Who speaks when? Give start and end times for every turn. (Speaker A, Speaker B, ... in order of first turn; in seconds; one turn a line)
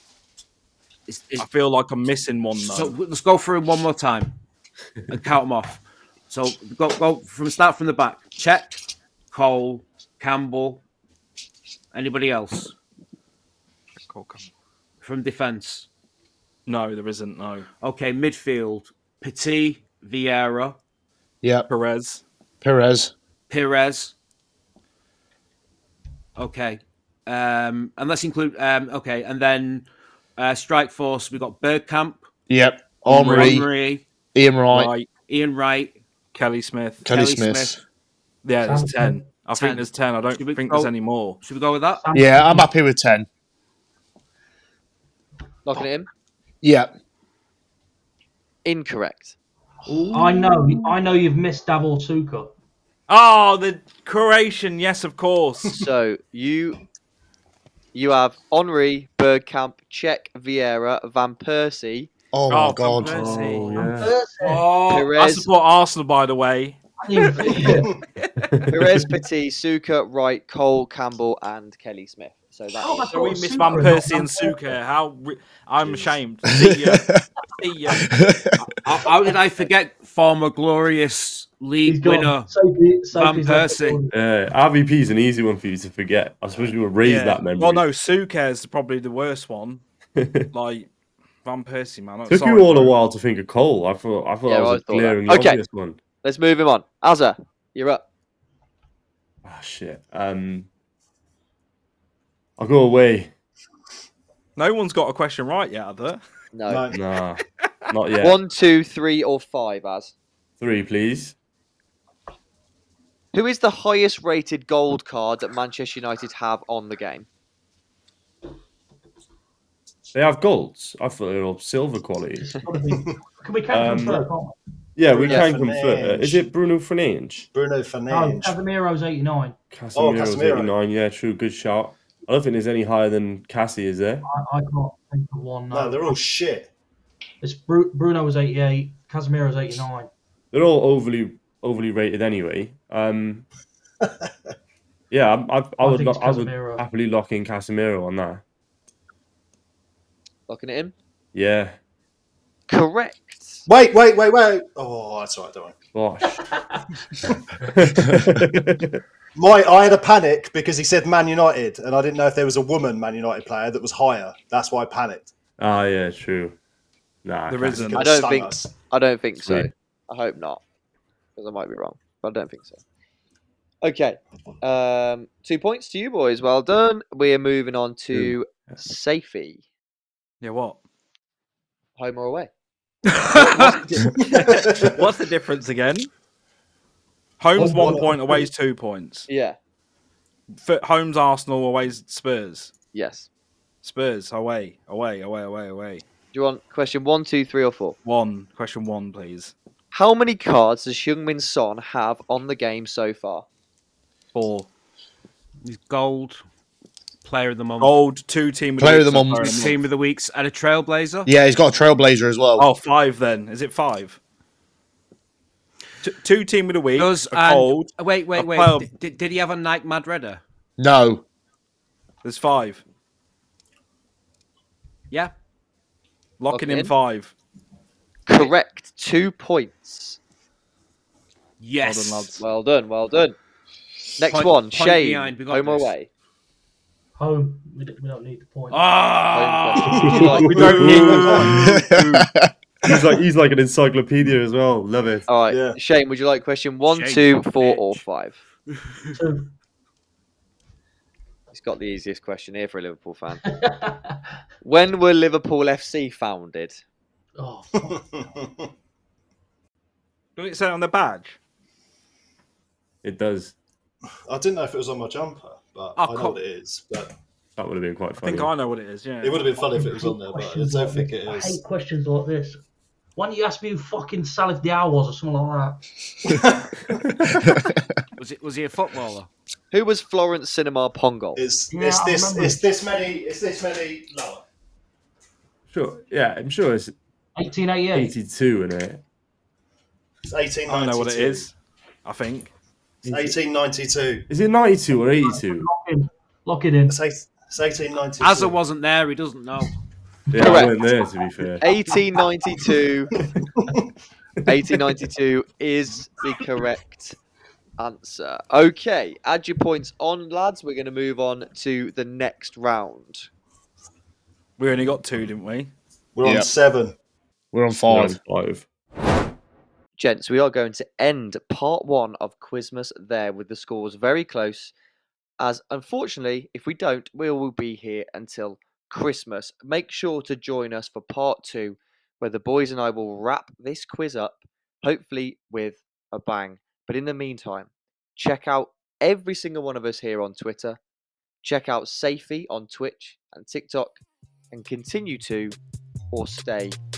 Speaker A: 1.1-1.5
Speaker B: 1.4-3.0
Speaker A: 2.6-4.3
Speaker A: 5.1-10.8
Speaker A: 11.9-12.7
Speaker B: 14.1-14.5
Speaker A: 15.0-15.9
Speaker B: 16.7-17.7
Speaker A: 17.8-20.8
Speaker C: 21.4-21.7
Speaker B: 21.7-22.2
Speaker C: 22.6-23.1
Speaker A: 23.5-24.1
Speaker A: 26.4-29.9
Speaker A: 30.4-32.2
Speaker C: 32.5-33.7
Speaker B: 33.1-33.7
Speaker A: 33.1-34.0
Speaker C: 34.3-34.9
Speaker B: 34.7-35.1
Speaker A: 35.3-36.0
Speaker B: 36.3-37.1
Speaker C: 37.0-37.8
Speaker A: 37.1-37.8
Speaker B: 38.4-41.4
Speaker D: 38.6-39.2
Speaker A: 39.5-39.9
Speaker A: 40.4-40.9
Speaker A: 41.4-42.0
Speaker D: 42.0-42.7
Speaker C: 42.1-43.3
Speaker E: 45.6-46.1
Speaker C: 46.6-46.9
Speaker E: 48.6-49.4
Speaker D: 50.1-52.5
Speaker B: 53.1-55.8
Speaker E: 55.8-56.8
Speaker E: 57.9-62.1
Speaker C: 62.3-63.3
Speaker B: 62.5-67.7
Speaker F: 63.0-64.1
Speaker D: 63.7-64.7
Speaker E: 64.8-65.5
Speaker D: 67.0-67.9
Speaker F: 68.4-69.0
Speaker E: 68.7-73.4
Speaker D: 72.8-74.8
Speaker B: 73.1-78.1
Speaker C: 76.7-77.2
Speaker C: 78.2-78.5
Speaker A: 78.8-82.5
Speaker D: 81.8-84.2
Speaker A: 83.1-84.0
Speaker F: 84.1-87.8
Speaker B: 87.0-89.8
Speaker F: 90.2-90.5
Speaker B: 90.5-90.9
Speaker B: 91.5-93.0
Speaker F: 92.3-96.0
Speaker E: 94.5-95.6
Speaker E: 96.2-98.0
Speaker F: 99.5-100.7
Speaker F: 102.6-103.3
Speaker B: 104.6-106.2
Speaker E: 106.5-106.8
Speaker G: 106.7-107.0
Speaker F: 106.9-108.4
Speaker E: 108.2-110.1
Speaker F: 110.6-111.3
Speaker E: 113.3-117.3
Speaker F: 120.1-122.7
Speaker D: 122.4-124.6
Speaker F: 123.7-124.3
Speaker F: 125.0-127.5
Speaker G: 125.1-126.5
Speaker G: 127.5-128.5
Speaker D: 128.1-129.6
Speaker F: 129.7-134.3
Speaker G: 129.9-130.7
Speaker D: 134.2-136.2
Speaker G: 135.7-136.7
Speaker D: 137.4-140.1
Speaker F: 140.5-143.4
Speaker G: 144.0-144.3
Speaker F: 145.1-148.4
Speaker D: 145.8-146.9
Speaker E: 150.5-150.9
Speaker F: 151.3-151.8
Speaker E: 152.7-153.7
Speaker G: 153.7-155.8
Speaker F: 155.9-156.4
Speaker F: 157.6-159.0
Speaker G: 159.4-165.3
Speaker F: 165.6-166.6
Speaker F: 167.2-168.0
Speaker B: 167.5-168.0
Speaker G: 167.7-168.7
Speaker E: 168.0-170.6
Speaker F: 169.4-169.7
Speaker E: 171.4-172.8
Speaker E: 173.8-179.6
Speaker B: 180.4-180.8
Speaker E: 182.0-182.5
Speaker A: 183.1-183.9
Speaker E: 183.3-184.1
Speaker G: 184.2-185.0
Speaker B: 184.2-186.1
Speaker B: 187.4-189.3
Speaker G: 187.6-188.1
Speaker D: 187.6-188.4
Speaker E: 189.3-189.6
Speaker B: 190.6-192.7
Speaker E: 192.9-193.3
Speaker B: 193.8-196.0
Speaker E: 196.3-198.0
Speaker B: 198.1-199.5
Speaker E: 199.9-203.4
Speaker B: 204.3-204.7
Speaker A: 205.6-206.4
Speaker A: 207.2-208.0
Speaker B: 207.8-209.8
Speaker C: 208.8-209.6
Speaker A: 209.4-211.3
Speaker C: 211.3-212.7
Speaker B: 212.6-214.2
Speaker B: 216.0-218.9
Speaker A: 217.0-220.4
Speaker C: 220.8-221.2
Speaker B: 222.2-222.8
Speaker B: 226.4-227.3
Speaker E: 226.5-226.9
Speaker E: 228.3-230.2
Speaker A: 231.6-232.4
Speaker B: 231.8-232.4
Speaker E: 232.4-233.4
Speaker E: 234.2-236.1
Speaker A: 234.2-235.9
Speaker D: 237.2-238.8
Speaker A: 238.7-240.2
Speaker E: 239.3-241.4
Speaker D: 239.8-241.5
Speaker F: 240.1-241.5
Speaker B: 240.4-242.2
Speaker C: 241.5-242.5
Speaker F: 242.8-245.3
Speaker E: 245.3-248.4
Speaker G: 245.5-245.8
Speaker A: 246.9-248.0
Speaker D: 249.2-249.5
Speaker E: 251.5-253.4
Speaker D: 253.6-254.1
Speaker E: 254.6-256.8
Speaker D: 257.4-258.0
Speaker G: 257.8-258.7
Speaker B: 260.4-261.4
Speaker F: 263.0-263.5
Speaker G: 264.3-267.1
Speaker A: 266.0-266.4
Speaker F: 267.6-268.5
Speaker B: 268.2-269.5
Speaker G: 269.2-271.6
Speaker D: 269.6-272.6
Speaker D: 273.2-275.8
Speaker F: 276.9-277.3
Speaker C: 277.5-277.8
Speaker A: 278.2-279.3
Speaker E: 279.7-281.4
Speaker G: 281.4-284.4
Speaker D: 281.7-282.6
Speaker F: 285.7-286.9
Speaker D: 287.4-288.1
Speaker F: 287.9-289.0
Speaker G: 290.3-291.5
Speaker B: 290.7-291.5
Speaker B: 292.1-292.5
Speaker G: 293.0-294.3
Speaker F: 293.1-293.4
Speaker F: 294.3-295.7
Speaker D: 295.2-297.0
Speaker G: 296.9-298.6
Speaker A: 298.2-299.7
Speaker F: 300.3-301.7
Speaker E: 300.4-300.8
Speaker E: 301.6-303.1
Speaker G: 303.1-303.8
Speaker E: 304.5-307.2
Speaker E: 307.8-313.3
Speaker B: 314.6-315.7
Speaker G: 316.1-316.9
Speaker C: 316.2-316.5
Speaker C: 317.5-318.2
Speaker F: 317.9-318.7
Speaker E: 320.0-324.7
Speaker E: 325.4-340.8
Speaker E: 341.4-345.6
Speaker E: 346.1-346.8